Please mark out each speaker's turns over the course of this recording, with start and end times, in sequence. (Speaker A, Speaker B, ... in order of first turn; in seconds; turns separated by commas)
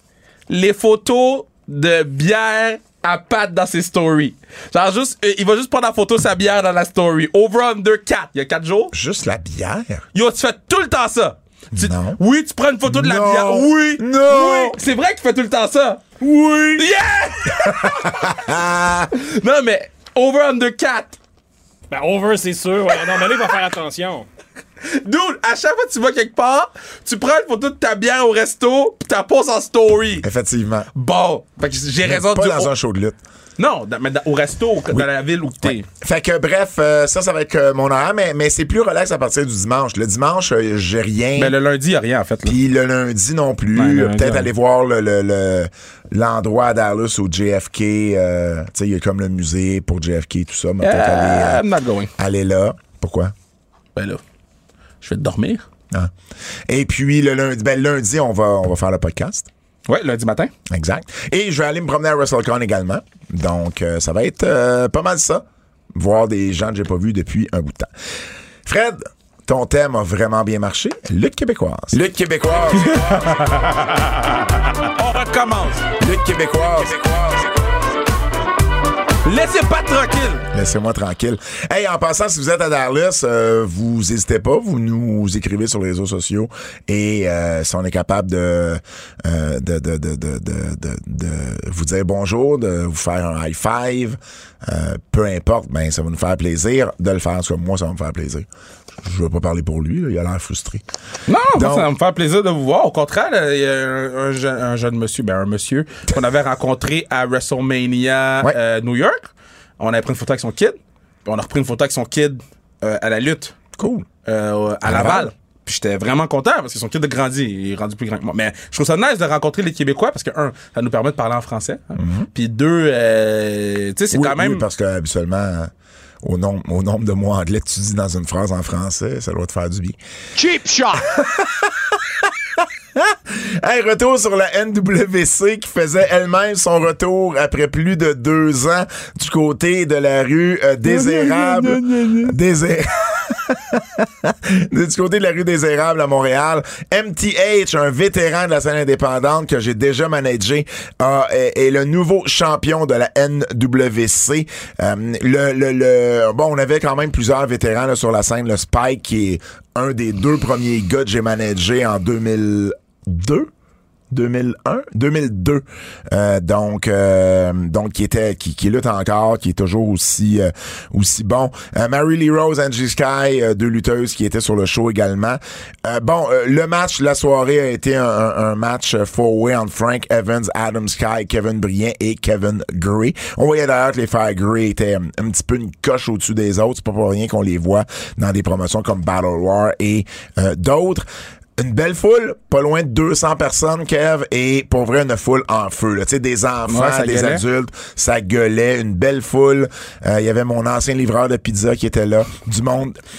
Speaker A: 0.5-8.9, Speaker B: 8.9-10.1, Speaker A: 10.1-16.1, Speaker B: 11.7-12.2, Speaker B: 12.9-14.8, Speaker B: 16.2-16.9, Speaker A: 16.7-18.4, Speaker B: 17.6-19.1, Speaker A: 19.1-21.2, Speaker C: 21.9-24.3, Speaker A: 24.8-30.3, Speaker B: 30.2-30.9, Speaker A: 30.9-32.7, Speaker B: 32.0-33.2, Speaker A: 33.6-35.9, Speaker B: 35.6-41.5, Speaker A: 41.4-42.6, Speaker B: 42.5-51.6, Speaker A: 43.8-44.5, Speaker A: 50.8-52.1, Speaker B: 52.2-53.3, Speaker A: 54.0-54.2, Speaker A: 55.0-55.6, Speaker B: 56.7-59.5, Speaker A: 59.9-60.5, Speaker B: 60.7-67.9, Speaker B: 68.7-73.4, Speaker A: 72.8-74.2, Speaker A: 74.8-75.9, Speaker B: 76.0-77.7, Speaker A: 79.2-80.5, Speaker B: 80.5-98.5, Speaker B: 99.0-100.8, Speaker A: 101.3-109.3, Speaker B: 101.5-101.9, Speaker A: 109.8-113.6, Speaker B: 113.8-114.1, Speaker A: 114.2-124.7, Speaker B: 114.8-115.3, Speaker B: 122.0-122.3, Speaker B: 124.1-130.0, Speaker C: 130.4-131.1, Speaker B: 131.0-163.5, Speaker A: 141.0-142.1, Speaker B: 164.1-191.1, Speaker B: 191.6-203.0, Speaker A: 196.7-197.4